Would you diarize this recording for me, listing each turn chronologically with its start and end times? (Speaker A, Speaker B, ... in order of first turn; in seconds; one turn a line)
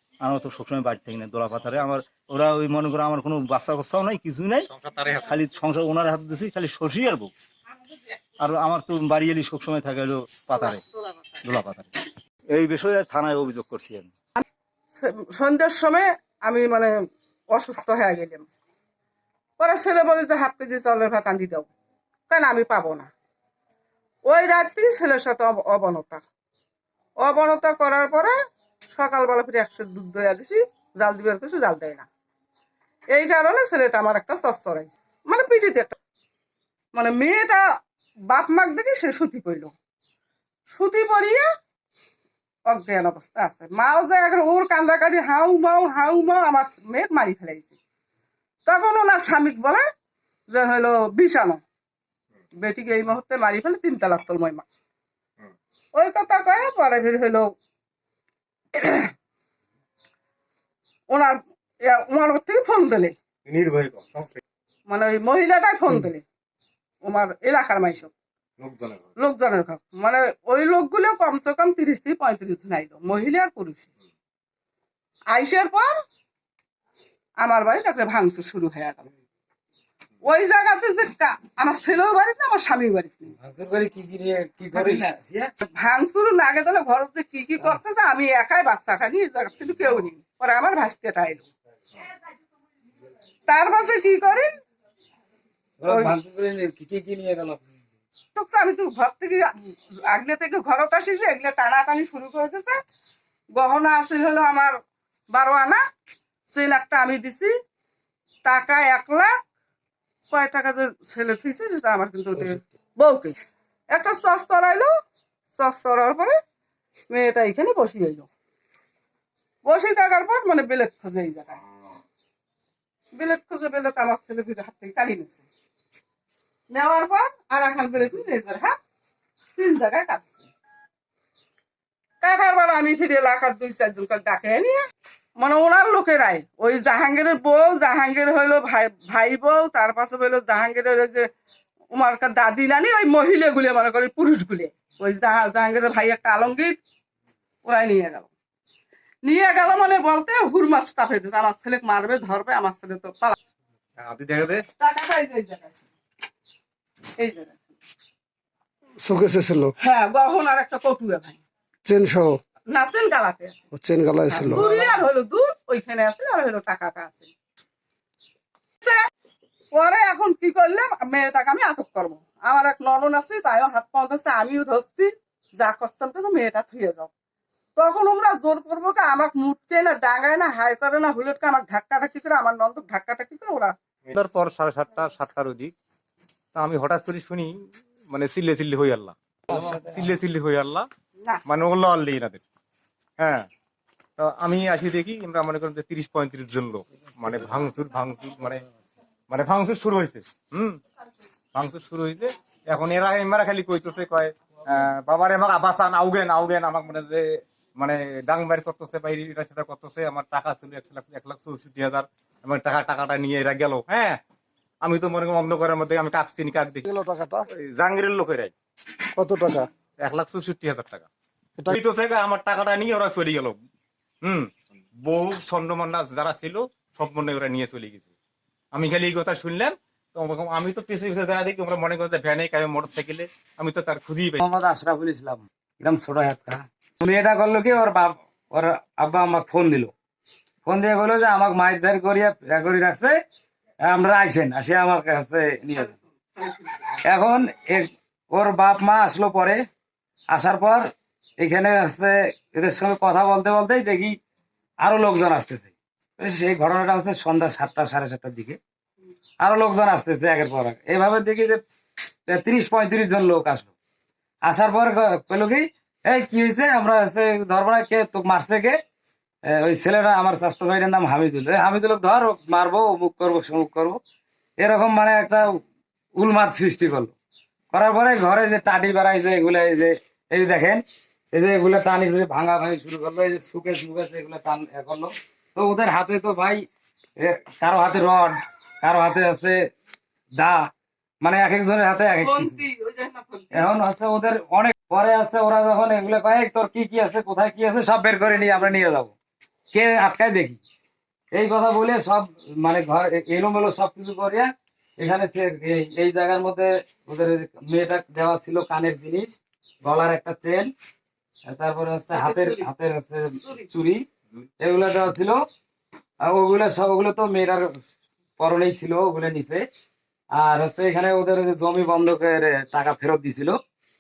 Speaker A: 0.2-7.3
Speaker B: 4.7-5.2
Speaker A: 8.4-10.8
Speaker A: 11.4-14.1
Speaker C: 14.9-16.9
Speaker C: 17.5-18.5
Speaker C: 19.6-21.7
Speaker C: 22.3-23.1
Speaker C: 24.3-26.2
Speaker C: 27.2-28.4
Speaker C: 29.0-32.1
Speaker C: 33.1-36.0
Speaker C: 36.9-37.6
Speaker C: 38.3-39.7
Speaker C: 40.7-41.5
Speaker C: 42.7-47.8
Speaker C: 48.7-49.8
Speaker C: 50.5-51.6
Speaker C: 52.6-54.6
Speaker C: 55.9-57.5
Speaker C: 58.8-59.1
Speaker C: 61.1-63.1
Speaker B: 63.5-64.4
Speaker C: 64.9-66.2
Speaker C: 67.0-68.1
Speaker B: 68.6-69.1
Speaker C: 69.2-73.9
Speaker C: 75.3-75.9
Speaker C: 77.4-79.1
Speaker C: 80.2-83.3
Speaker D: 83.4-85.5
Speaker C: 84.7-85.0
Speaker C: 85.7-91.5
Speaker C: 93.5-94.5
Speaker D: 95.8-97.6
Speaker C: 95.9-96.2
Speaker C: 98.3-102.8
Speaker C: 103.5-104.8
Speaker C: 105.3-105.8
Speaker C: 106.5-107.5
Speaker C: 108.5-109.3
Speaker C: 110.3-113.3
Speaker C: 113.9-114.9
Speaker C: 115.5-116.4
Speaker C: 117.1-118.3
Speaker C: 119.7-121.6
Speaker C: 123.2-125.4
Speaker C: 126.7-128.8
Speaker C: 129.6-130.5
Speaker C: 132.2-134.8
Speaker C: 135.4-141.3
Speaker C: 141.9-146.8
Speaker C: 147.7-148.3
Speaker C: 149.2-153.3
Speaker B: 154.0-154.7
Speaker C: 154.8-155.8
Speaker C: 157.2-157.7
Speaker E: 159.0-159.7
Speaker C: 159.8-161.4
Speaker E: 161.8-162.4
Speaker C: 162.7-163.6
Speaker E: 163.7-164.7
Speaker C: 164.3-167.3
Speaker C: 169.7-177.1
Speaker C: 177.8-183.7
Speaker B: 184.1-185.7
Speaker B: 186.6-187.5
Speaker B: 188.1-190.9
Speaker D: 189.5-190.2
Speaker B: 191.5-192.4
Speaker B: 193.2-193.5
Speaker B: 194.2-198.7
Speaker B: 199.3-200.8
Speaker B: 201.6-214.2
Speaker B: 214.8-216.8
Speaker E: 216.9-217.4
Speaker B: 217.6-218.5
Speaker E: 219.2-219.7
Speaker B: 220.0-221.1
Speaker B: 221.7-223.6
Speaker B: 224.2-224.5
Speaker B: 225.0-228.1
Speaker B: 228.7-234.4
Speaker D: 234.4-239.9
Speaker D: 240.7-243.2
Speaker D: 243.8-246.0
Speaker D: 246.9-249.6
Speaker D: 250.3-254.2
Speaker D: 254.8-258.6
Speaker D: 259.4-261.6
Speaker D: 262.3-263.7
Speaker D: 264.4-268.8
Speaker D: 269.5-274.0
Speaker D: 274.6-275.6
Speaker D: 276.2-277.1
Speaker D: 277.7-286.7
Speaker D: 287.2-289.6
Speaker D: 290.4-290.7
Speaker D: 291.2-292.6
Speaker C: 292.8-293.4
Speaker D: 293.5-299.1
Speaker D: 299.7-300.6
Speaker D: 301.3-310.7
Speaker D: 311.5-314.1
Speaker D: 314.6-315.4
Speaker D: 316.2-317.7
Speaker D: 318.4-319.7
Speaker D: 320.4-323.6